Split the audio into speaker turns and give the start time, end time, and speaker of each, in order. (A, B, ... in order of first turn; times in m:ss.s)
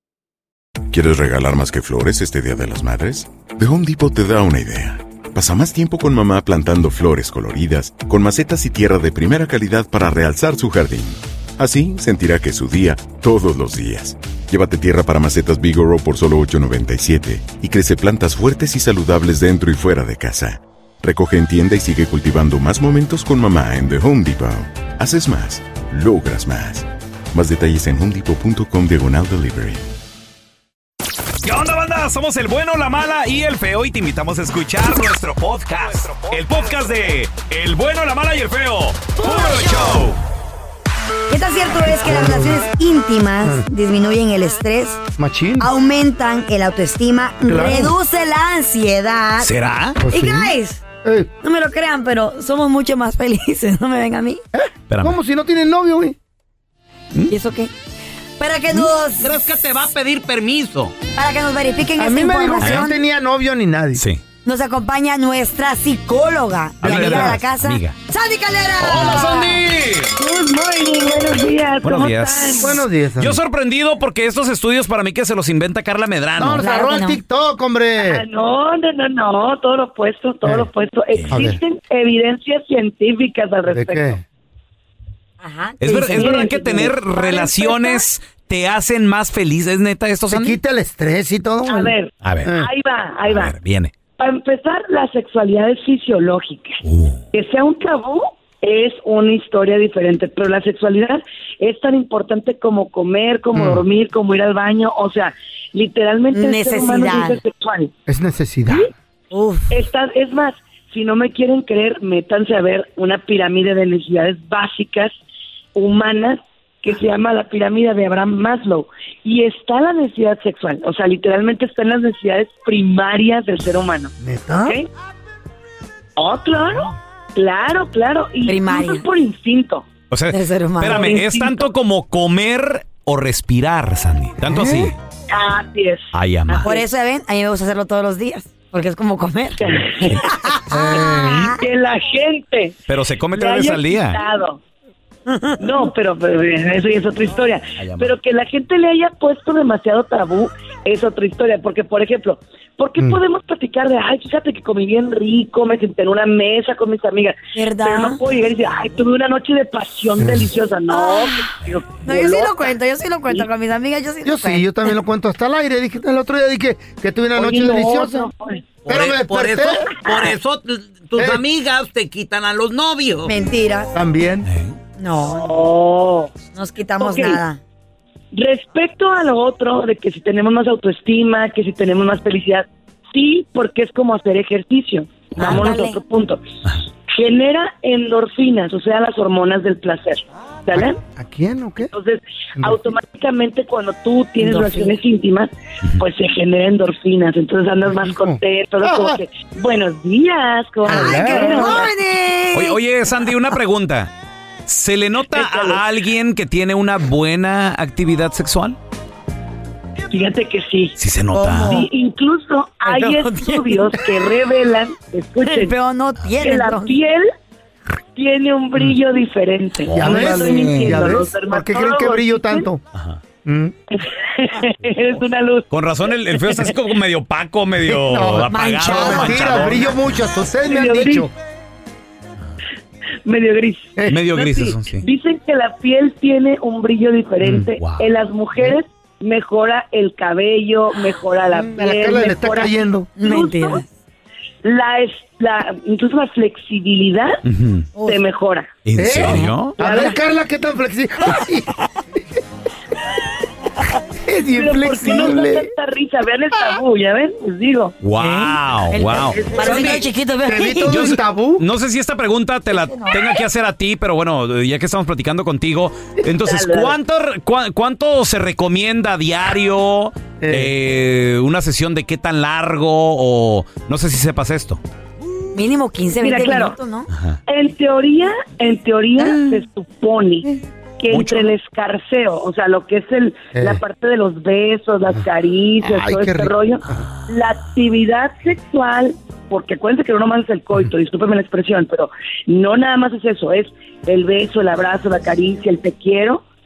0:00.9-0:29.8 A
0:31.4-0:40.2 B
0:39.2-0:39.9 C
0:41.3-0:45.0 C
0:41.9-0:42.6 D
0:45.2-0:45.7 D
0:45.6-0:49.5 C
0:47.5-0:48.0 D
0:49.4-0:50.0 B
0:50.0-0:51.3 D
0:50.1-0:50.8 C
0:51.4-0:54.4 C
0:54.6-0:56.2 D
0:54.9-0:55.2 B
0:57.3-0:57.7 C
0:58.4-0:59.4 C
0:59.2-1:01.0 E
1:01.2-1:03.0 C
1:02.0-1:04.0 D
1:04.0-1:04.2 B
1:04.4-1:09.6 C
1:06.8-1:08.0 B
1:06.8-1:07.4 D
1:08.8-1:10.1 B
1:10.2-1:12.7 F
1:11.8-1:16.6 B
1:12.6-1:13.4 D
1:16.4-1:18.2 D
1:16.6-1:17.2 C
1:18.0-1:24.2 F
1:21.2-1:21.4 B
1:21.3-1:21.6 D
1:23.7-1:24.2 D
1:25.4-1:28.0 C
1:25.8-1:30.6 B
1:26.2-1:27.5 F
1:30.3-1:32.7 D
1:31.7-1:33.6 F
1:32.2-1:32.5 B
1:33.2-1:33.9 B
1:34.2-1:36.8 F
1:36.8-1:37.2 B
1:37.3-1:47.9 F
1:43.5-1:43.8 D
1:46.3-1:47.4 C
1:48.1-1:48.9 D
1:49.3-1:49.8 C
1:49.7-1:55.1 F
1:55.8-2:04.1 F
2:04.2-2:04.8 D
2:06.2-2:09.9 F
2:08.4-2:09.0 C
2:10.1-2:15.0 B
2:10.3-2:11.4 C
2:10.9-2:11.6 F
2:14.5-2:14.9 D
2:15.3-2:16.8 F
2:16.1-2:16.7 B
2:16.6-2:21.6 C
2:19.6-2:20.2 F
2:20.7-2:21.5 D
2:21.5-2:22.8 F
2:22.9-2:24.2 B
2:23.3-2:24.6 F
2:25.3-2:25.9 C
2:25.6-2:42.7 F
2:27.8-2:28.1 B
2:37.6-2:38.2 C
2:40.2-2:40.5 D
2:40.9-2:44.9 C
2:44.2-2:48.3 D
2:47.4-2:48.8 F
2:48.9-2:50.0 D
2:48.9-2:53.3 E
2:51.2-2:51.4 D
2:53.3-2:53.9 C
2:54.0-2:54.5 D
2:54.5-2:54.8 B
2:55.0-2:55.6 C
2:55.3-2:56.3 F
2:56.6-2:57.6 C
2:57.0-2:57.4 F
2:58.3-3:11.0 F
3:05.4-3:06.0 C
3:10.7-3:11.9 D
3:11.9-3:21.9 F
3:12.6-3:12.9 D
3:14.4-3:15.0 C
3:17.9-3:19.2 D
3:20.8-3:21.9 D
3:20.8-3:22.8 C
3:22.5-3:24.1 B
3:24.7-3:28.8 B
3:25.3-3:25.8 F
3:30.1-3:31.0 F
3:31.0-3:31.8 B
3:31.4-3:31.9 C
3:31.7-3:35.7 F
3:32.8-3:34.2 C
3:35.4-3:37.0 C
3:36.4-3:37.3 F
3:38.2-3:42.7 F
3:39.8-3:41.2 B
3:39.9-3:42.8 D
3:43.4-3:43.7 D
3:44.0-3:46.7 F
3:45.7-3:49.9 B
3:47.9-3:51.3 D
3:48.5-3:49.5 C
3:50.6-3:51.3 F
3:53.2-4:03.8 F
3:54.1-3:55.0 B
3:57.4-3:57.7 D
3:57.8-3:58.1 B
4:01.5-4:03.1 D
4:03.2-4:03.9 C
4:04.6-4:07.4 F
4:07.4-4:07.9 B
4:08.0-4:08.2 C
4:08.0-4:08.7 F
4:08.9-4:09.8 B
4:09.0-4:12.2 D
4:09.3-4:10.1 C
4:09.8-4:10.2 F
4:14.2-4:15.7 D
4:14.5-4:18.0 F
4:18.0-4:20.0 B
4:18.2-4:21.0 C
4:19.3-4:20.0 F
4:20.4-4:21.6 D
4:20.9-4:34.8 B
4:22.9-4:23.2 C
4:26.4-4:27.0 F
4:30.4-4:30.7 D
4:35.5-4:37.1 C
4:36.2-4:36.8 F
4:37.1-4:37.4 B
4:37.5-4:56.4 F
4:39.3-4:39.6 C
4:41.1-4:41.5 B
4:43.5-4:43.8 D
4:45.8-4:47.0 D